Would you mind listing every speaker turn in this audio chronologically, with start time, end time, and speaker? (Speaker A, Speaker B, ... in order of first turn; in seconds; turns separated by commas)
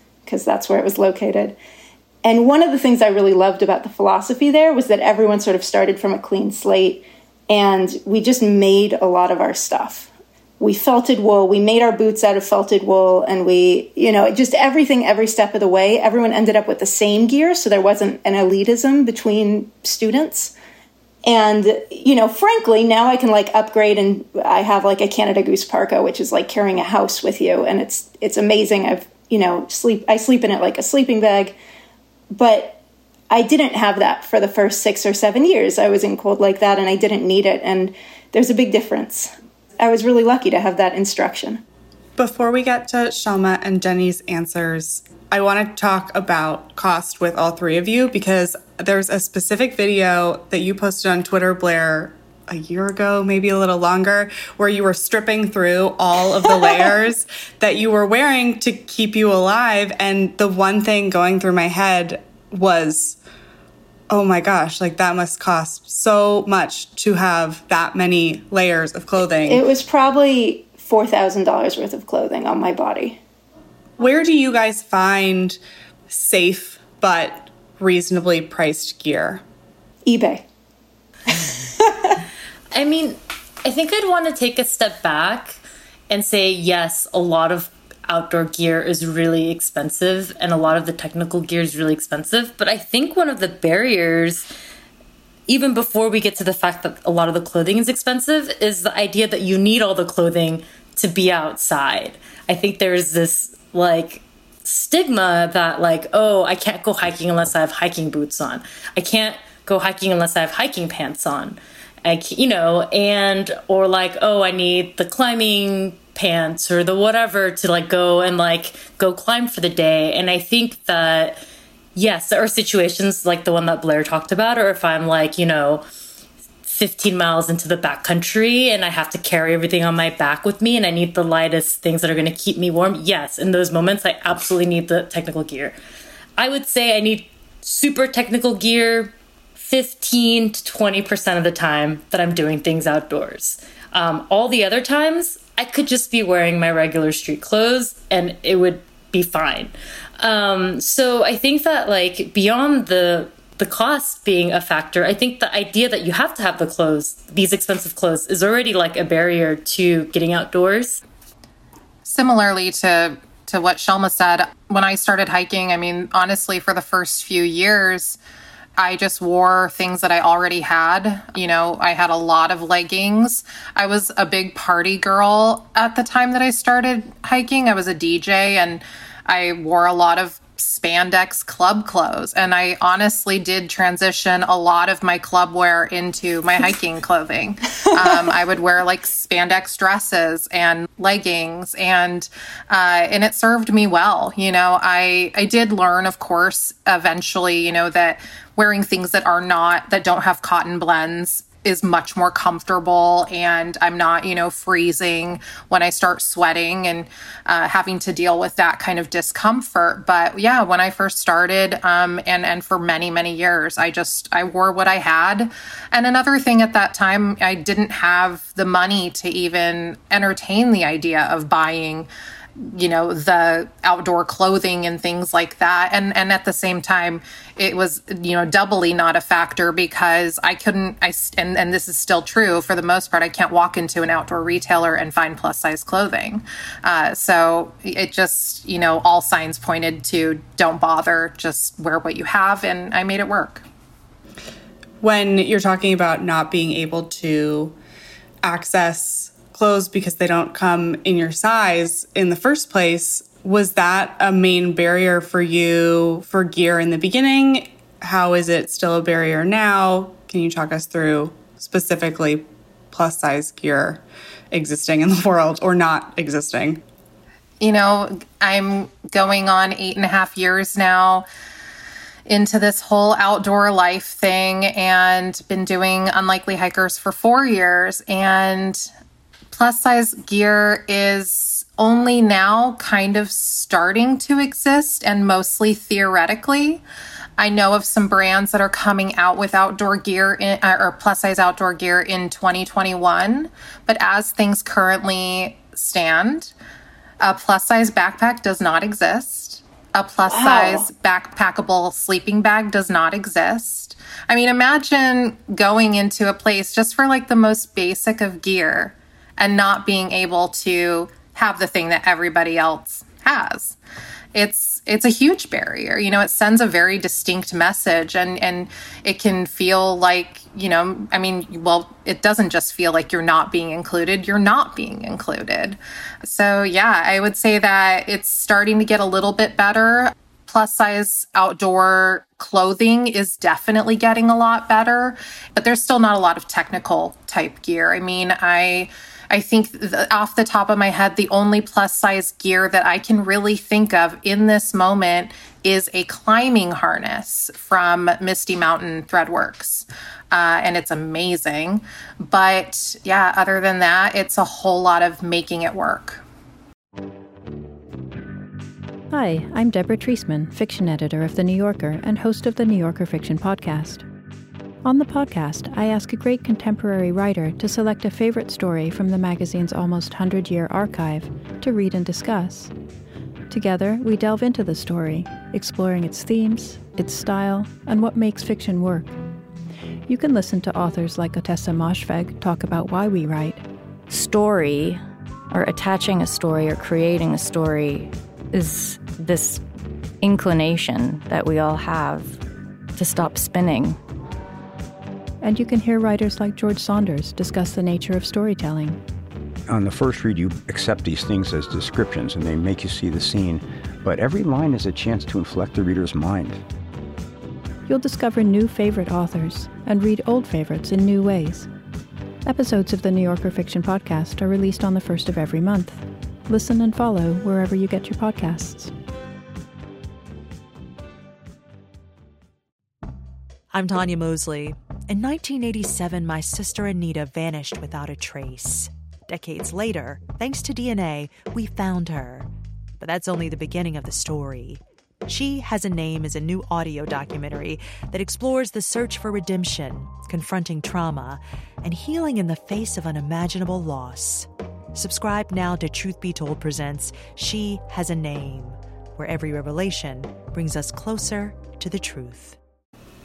Speaker A: 0.2-1.6, Speaker A: 2.2-20.5, Speaker A: 21.2-31.6, Speaker A: 32.3-32.8, Speaker A: 33.3-41.6, Speaker B: 42.2-63.2, Speaker B: 64.1-69.6, Speaker A: 69.5-73.2, Speaker B: 74.0-79.4, Speaker A: 80.0-80.4, Speaker A: 81.3-82.2, Speaker C: 82.7-85.6, Speaker C: 86.1-94.5, Speaker C: 95.5-121.4, Speaker C: 121.9-125.8, Speaker C: 126.6-135.7, Speaker C: 136.4-161.0, Speaker D: 162.0-168.2, Speaker D: 168.8-243.6, Speaker A: 188.0-188.3, Speaker B: 245.0-247.7, Speaker B: 248.4-266.8, Speaker D: 267.6-271.2, Speaker D: 272.2-278.9, Speaker D: 279.5-286.8, Speaker D: 287.4-296.5, Speaker D: 297.2-313.8, Speaker A: 300.3-300.9, Speaker D: 314.3-356.2, Speaker E: 359.1-364.0, Speaker E: 364.8-372.7, Speaker E: 373.5-379.1, Speaker E: 380.1-383.6, Speaker F: 384.1-389.6, Speaker F: 390.2-392.4, Speaker F: 392.9-394.0, Speaker E: 395.4-399.0, Speaker G: 399.7-406.6, Speaker E: 407.9-411.7, Speaker E: 412.4-418.9, Speaker H: 423.7-452.6